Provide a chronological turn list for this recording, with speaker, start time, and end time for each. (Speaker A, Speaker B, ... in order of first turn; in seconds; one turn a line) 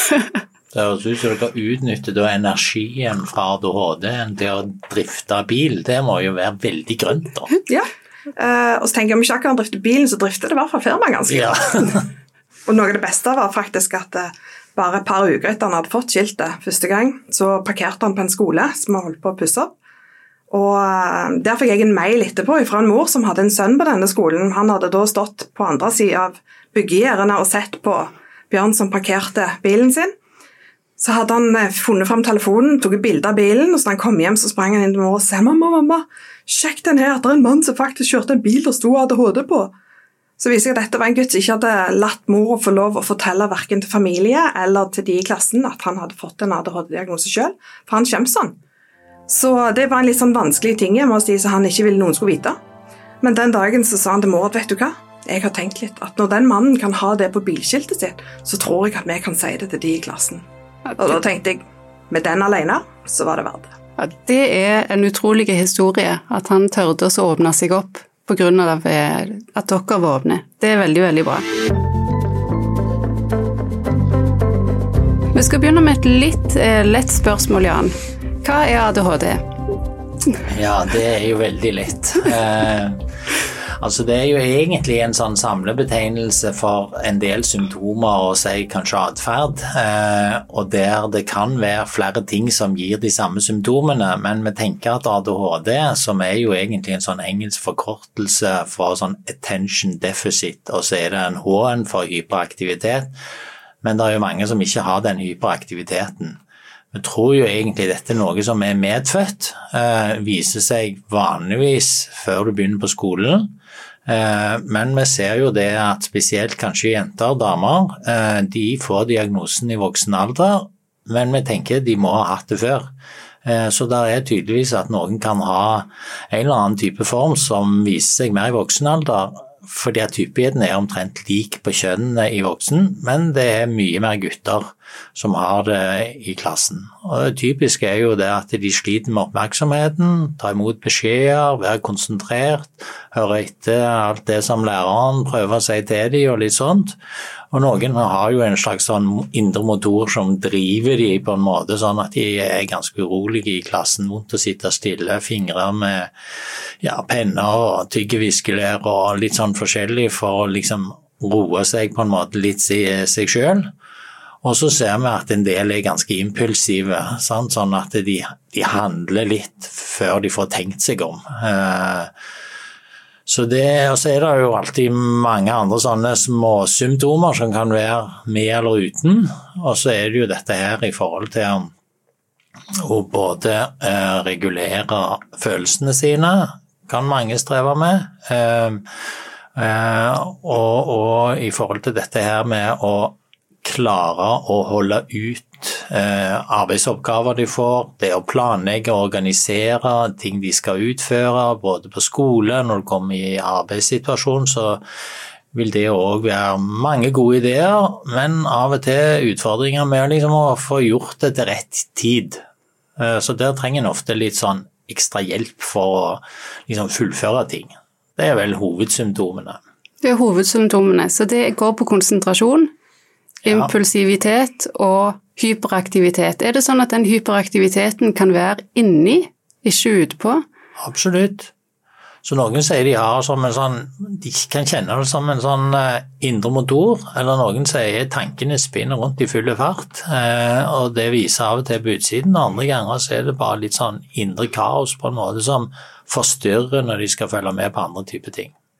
Speaker A: 0.7-7.5
Speaker B: 7.7-12.0
Speaker A: 11.3-12.0
Speaker B: 12.7-19.7
Speaker B: 20.5-30.1
Speaker B: 31.0-39.7
Speaker B: 40.4-48.6
Speaker B: 49.3-52.6
Speaker B: 53.2-60.5
Speaker B: 61.0-63.7
Speaker C: 64.0-71.5
Speaker C: 75.3-79.5
Speaker A: 80.5-83.0
Speaker A: 83.8-103.1
Speaker A: 103.8-106.4
Speaker A: 106.9-113.5
Speaker A: 114.1-122.9
Speaker A: 123.4-147.0
Speaker A: 147.5-156.1
Speaker A: 156.8-163.7
Speaker A: 164.4-172.1
Speaker A: 173.3-181.7
Speaker A: 182.8-188.8
Speaker A: 189.6-204.8
Speaker A: 205.5-212.4
Speaker A: 213.0-219.6
Speaker C: 220.0-222.7
Speaker A: 223.4-223.7
Speaker C: 223.4-230.4
Speaker A: 230.8-231.5
Speaker A: 232.2-248.5